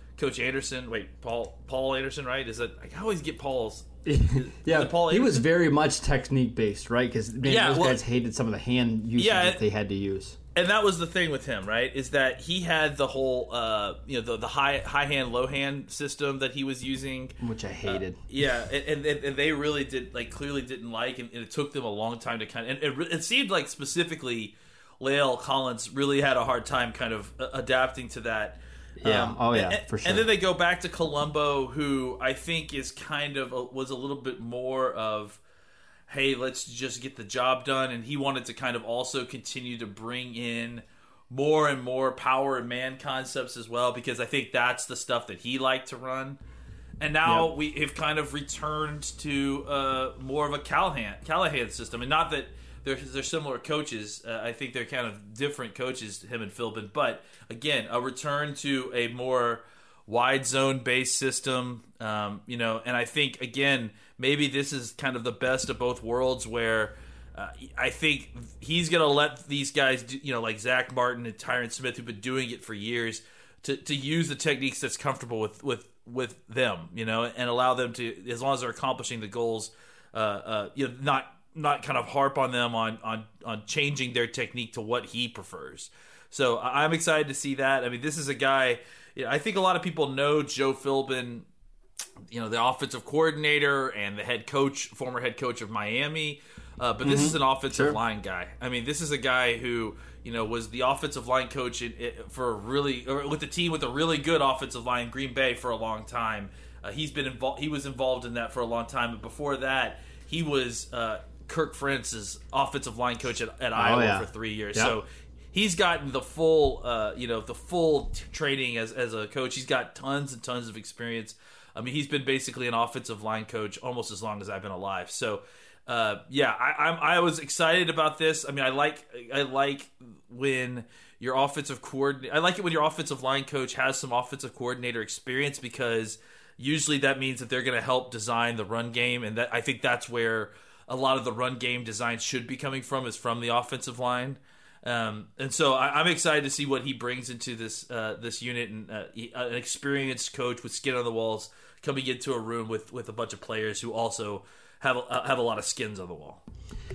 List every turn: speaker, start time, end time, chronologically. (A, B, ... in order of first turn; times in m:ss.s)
0:00.2-0:05.5 A
0:04.0-0:10.4 B
0:07.4-0:08.0 A
0:09.2-0:09.6 A
0:10.5-0:17.4 A
0:17.4-0:18.2 B
0:17.9-0:35.4 A
0:29.0-0:30.3 B
0:36.1-0:46.4 A
0:47.0-1:31.4 A
0:47.2-0:47.5 B
1:32.3-2:36.4 A
1:37.0-1:38.0 B
1:53.7-1:55.0 B